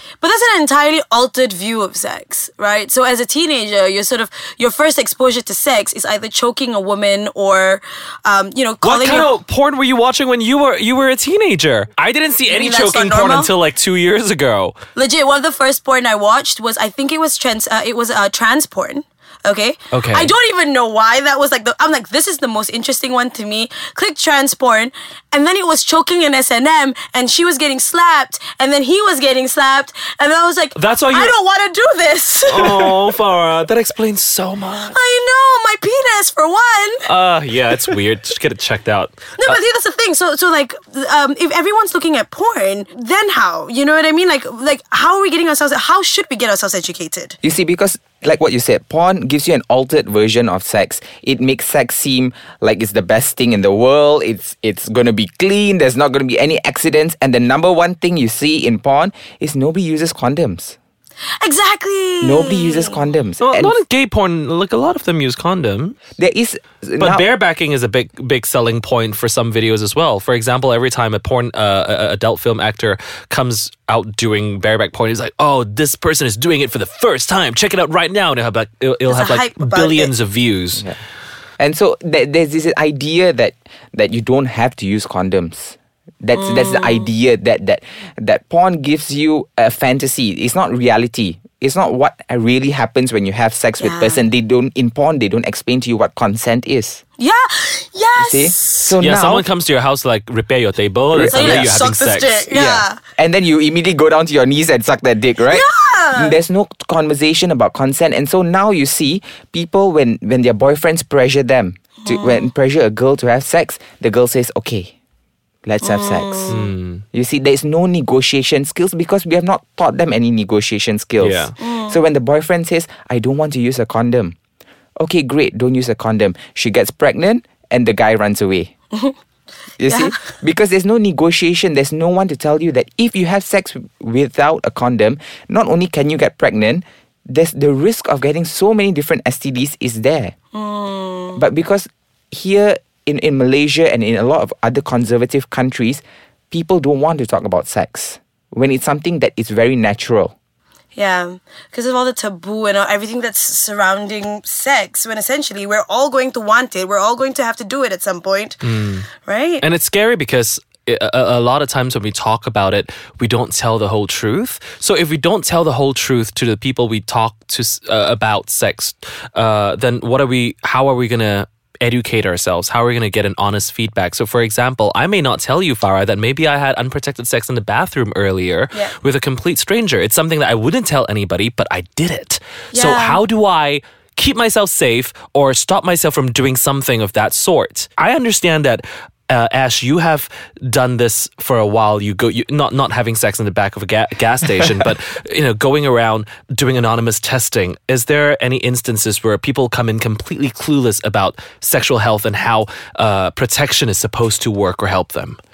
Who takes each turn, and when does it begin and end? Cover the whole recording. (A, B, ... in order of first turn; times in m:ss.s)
0:00.2-0:09.3 A
0:08.8-0:14.8 B
0:12.5-0:13.5 A
0:14.9-0:33.0 A
0:19.9-0:20.3 B
0:30.7-0:31.3 B
0:32.5-0:34.9 B
0:34.9-0:37.0 A
0:37.0-0:39.6 B
0:39.4-0:47.4 A
0:47.4-1:00.8 C
1:01.4-1:03.0 A
1:02.2-1:03.7 C
1:03.4-1:06.0 B
1:06.2-1:07.2 C
1:07.0-1:20.8 B
1:19.1-1:20.1 A
1:21.6-1:37.0 C
1:26.3-1:27.1 A
1:33.8-1:34.2 A
1:37.2-1:38.9 A
1:38.2-1:39.4 C
1:39.0-1:42.5 B
1:41.1-1:41.7 C
1:41.3-1:43.0 A
1:42.5-1:54.9 C
1:45.5-1:46.4 A
1:52.0-1:52.5 A
1:55.6-1:56.6 C
1:55.8-1:56.6 A
1:56.5-1:57.0 B
1:57.1-2:04.3 C
2:01.2-2:01.6 B
2:01.6-2:02.0 A
2:05.0-2:08.7 C
2:09.8-2:20.3 C
2:09.8-2:10.2 A
2:20.5-2:21.4 A
2:21.3-2:30.3 C
2:30.9-2:38.6 A
2:38.6-2:39.1 B
2:39.2-2:39.6 A
2:39.6-3:25.4 B
3:02.7-3:03.2 A